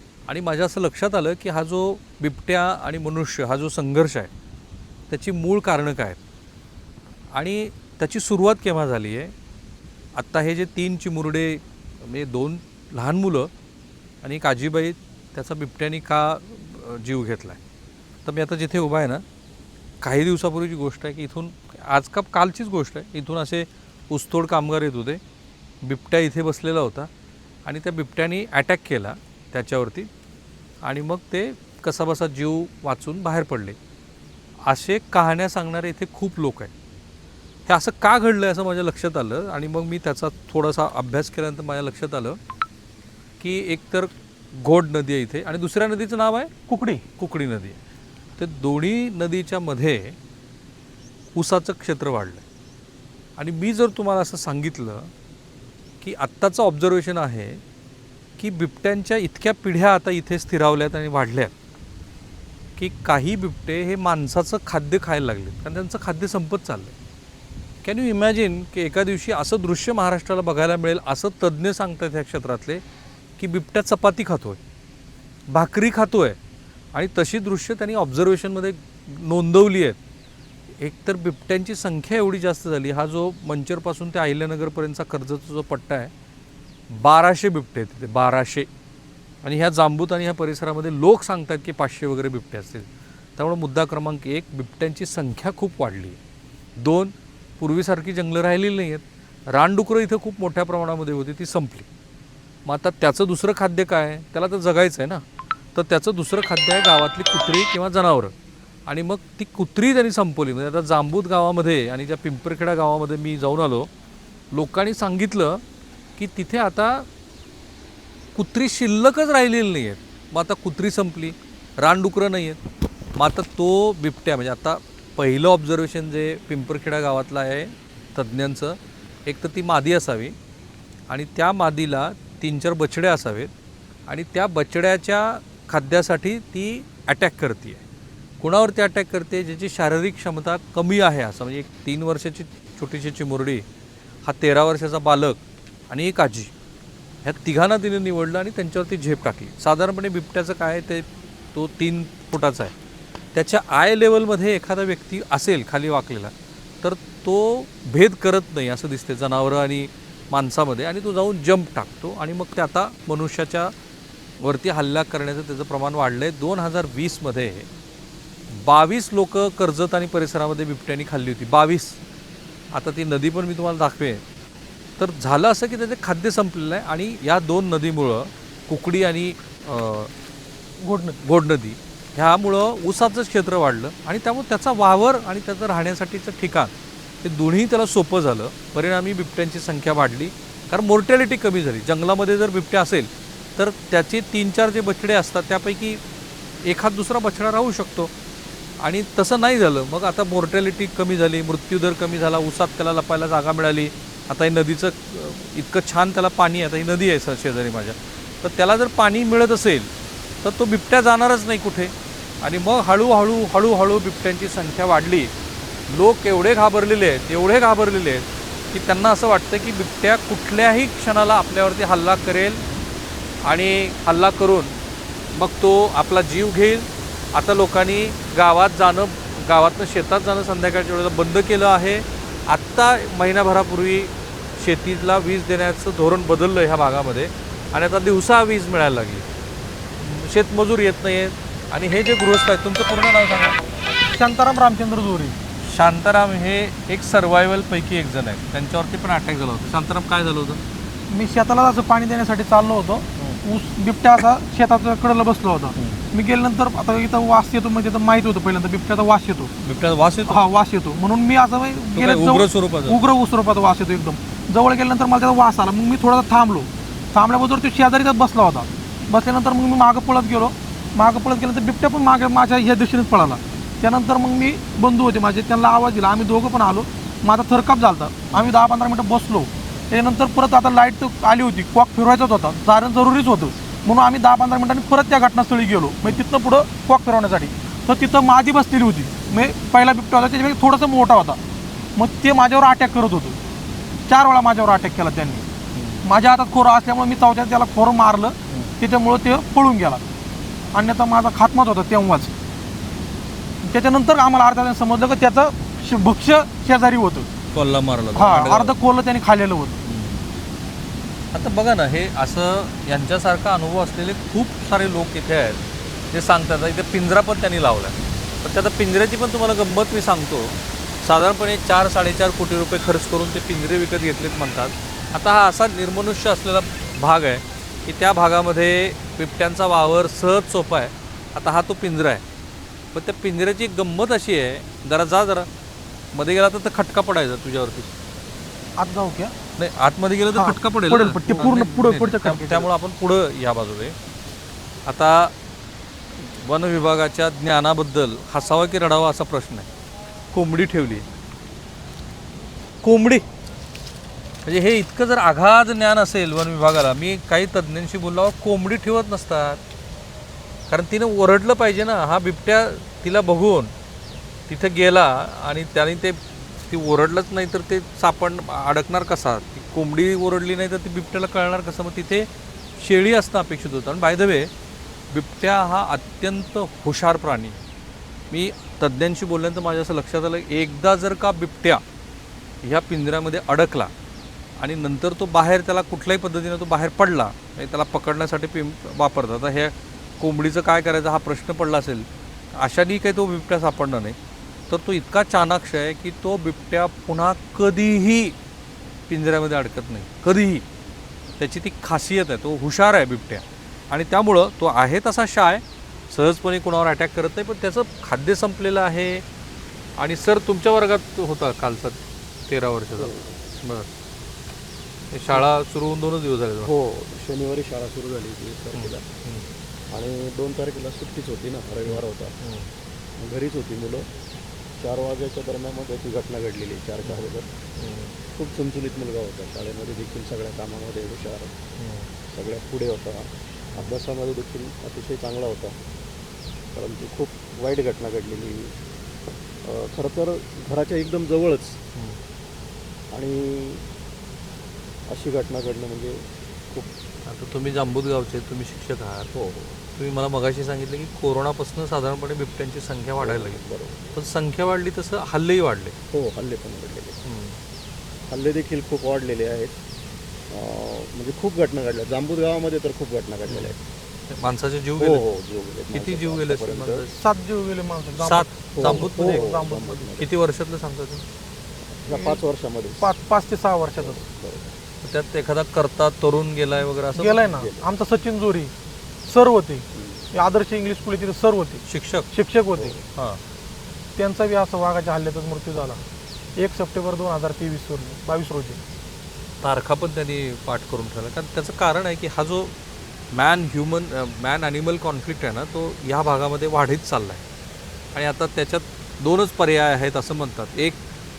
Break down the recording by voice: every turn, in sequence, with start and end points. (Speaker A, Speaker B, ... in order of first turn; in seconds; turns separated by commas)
Speaker A: 0.3-4.3, Speaker A: 5.1-6.2, Speaker A: 7.3-9.3, Speaker A: 10.1-13.5, Speaker A: 14.2-17.6, Speaker A: 18.2-19.2, Speaker A: 20.0-25.2, Speaker A: 25.8-27.1, Speaker A: 27.6-30.1, Speaker A: 30.8-33.8, Speaker A: 34.6-36.7, Speaker A: 37.6-42.4, Speaker A: 43.4-46.5, Speaker B: 46.7-47.0, Speaker A: 47.2-47.8, Speaker A: 48.4-50.2, Speaker A: 51.3-52.4, Speaker A: 53.4-55.1, Speaker A: 56.0-57.6, Speaker A: 58.4-61.5, Speaker A: 62.8-66.9, Speaker A: 67.8-72.8, Speaker A: 73.4-74.6, Speaker A: 75.5-76.4, Speaker A: 76.9-80.0, Speaker A: 80.8-86.1, Speaker A: 86.9-88.7, Speaker A: 89.4-96.2, Speaker A: 96.8-101.9, Speaker A: 102.6-105.2, Speaker A: 105.7-108.3, Speaker A: 108.8-113.9, Speaker A: 114.5-115.6, Speaker A: 116.2-117.0, Speaker A: 118.3-122.6, Speaker A: 123.1-130.3, Speaker A: 131.1-133.5, Speaker A: 134.1-137.8, Speaker A: 138.4-143.6, Speaker A: 144.2-146.5, Speaker A: 147.2-152.7, Speaker A: 153.3-163.7, Speaker A: 164.4-167.7, Speaker A: 168.5-172.0, Speaker A: 172.7-174.2, Speaker A: 175.0-180.1, Speaker B: 180.8-181.2, Speaker A: 181.2-196.0, Speaker A: 196.6-198.1, Speaker A: 198.8-209.9, Speaker A: 210.4-215.3, Speaker A: 215.9-222.6, Speaker A: 223.4-224.8, Speaker A: 225.3-239.2, Speaker A: 240.0-243.6, Speaker B: 244.1-245.4, Speaker A: 245.6-250.6, Speaker B: 251.1-259.5, Speaker A: 259.6-260.4, Speaker B: 260.3-291.4, Speaker A: 261.9-263.0, Speaker B: 291.9-293.4, Speaker B: 294.1-295.4, Speaker A: 295.7-296.0, Speaker B: 296.0-300.0, Speaker A: 298.5-298.7, Speaker B: 300.7-302.3, Speaker B: 303.6-307.3, Speaker A: 307.5-308.7, Speaker B: 308.1-309.8, Speaker A: 309.8-310.2, Speaker A: 311.3-332.2, Speaker A: 332.9-335.5, Speaker A: 336.1-337.9, Speaker B: 338.8-339.3, Speaker A: 339.6-343.9, Speaker B: 340.3-342.7, Speaker A: 344.8-345.3, Speaker A: 346.1-349.7, Speaker A: 350.3-351.0, Speaker A: 352.8-353.3, Speaker A: 354.4-359.6, Speaker A: 360.7-363.7, Speaker A: 364.5-374.5, Speaker A: 375.1-377.6, Speaker A: 378.3-381.8, Speaker A: 382.6-383.9, Speaker A: 384.6-394.2, Speaker A: 394.7-398.4, Speaker A: 399.1-400.6, Speaker A: 401.4-409.2, Speaker A: 410.0-413.9, Speaker C: 412.9-413.4, Speaker A: 415.1-416.7, Speaker C: 416.6-419.1, Speaker A: 418.7-419.4, Speaker C: 419.9-422.4, Speaker A: 421.9-422.7, Speaker C: 423.2-424.1, Speaker C: 424.8-427.5, Speaker A: 427.8-428.1, Speaker C: 428.3-431.5, Speaker A: 431.8-432.1, Speaker C: 432.3-435.8, Speaker C: 436.7-438.8, Speaker C: 439.6-441.8, Speaker C: 443.1-443.8, Speaker C: 445.1-446.9, Speaker A: 447.2-449.3, Speaker C: 449.3-449.8, Speaker A: 449.9-453.6, Speaker C: 453.2-454.0, Speaker A: 454.1-455.9, Speaker C: 456.1-457.2, Speaker A: 457.2-457.6, Speaker C: 458.3-459.7, Speaker C: 460.5-463.8, Speaker A: 463.5-463.8, Speaker A: 464.3-465.2, Speaker C: 465.0-467.1, Speaker A: 465.9-467.2, Speaker B: 467.2-470.1, Speaker A: 468.2-469.4, Speaker C: 468.7-470.3, Speaker A: 470.2-471.2, Speaker C: 471.9-473.1, Speaker B: 472.1-472.4, Speaker B: 473.0-474.1, Speaker C: 473.9-474.8, Speaker A: 475.0-477.5, Speaker B: 477.1-478.7, Speaker C: 477.4-477.9, Speaker B: 479.3-482.9, Speaker C: 479.9-480.3, Speaker A: 481.8-482.3, Speaker C: 482.7-483.1, Speaker A: 483.1-483.4, Speaker B: 484.2-486.0, Speaker B: 486.6-488.8, Speaker A: 489.6-492.7, Speaker A: 493.3-497.4, Speaker A: 498.1-501.0